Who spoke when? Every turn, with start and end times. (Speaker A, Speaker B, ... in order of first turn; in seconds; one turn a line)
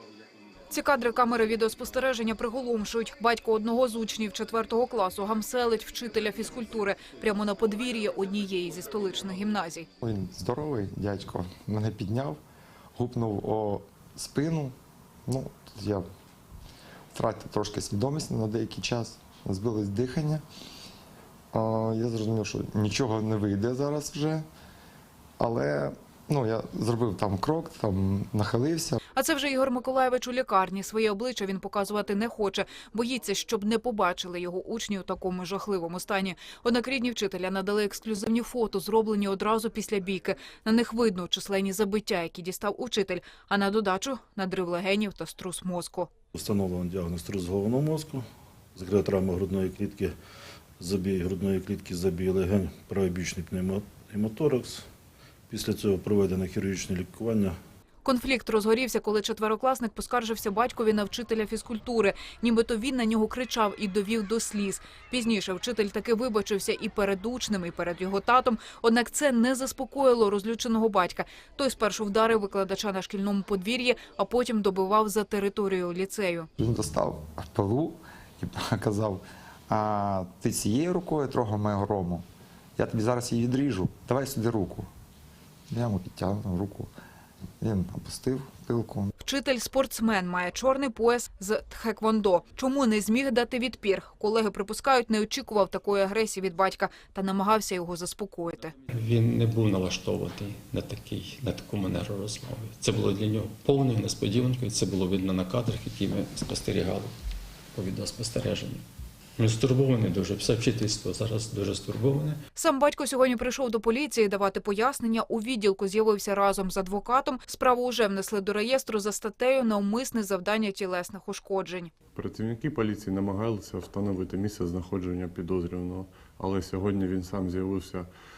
Speaker A: 0.7-9.8
Speaker B: 10.0-12.4
Speaker B: 12.9-14.7
Speaker B: 15.3-16.0
Speaker B: 17.1-20.4
Speaker B: 21.5-24.4
Speaker B: 25.4-29.0
Speaker A: 29.1-46.1
Speaker C: 46.3-48.2
Speaker C: 48.7-50.1
Speaker C: 50.8-54.8
Speaker C: 55.5-57.6
Speaker A: 58.0-76.5
Speaker B: 76.6-82.2
Speaker B: 82.8-84.9
Speaker B: 85.7-86.9
Speaker B: 87.6-89.1
Speaker A: 89.2-98.7
Speaker D: 98.9-107.1
Speaker D: 107.7-108.8
Speaker D: 109.4-112.4
Speaker A: 112.5-121.9
Speaker E: 122.1-128.1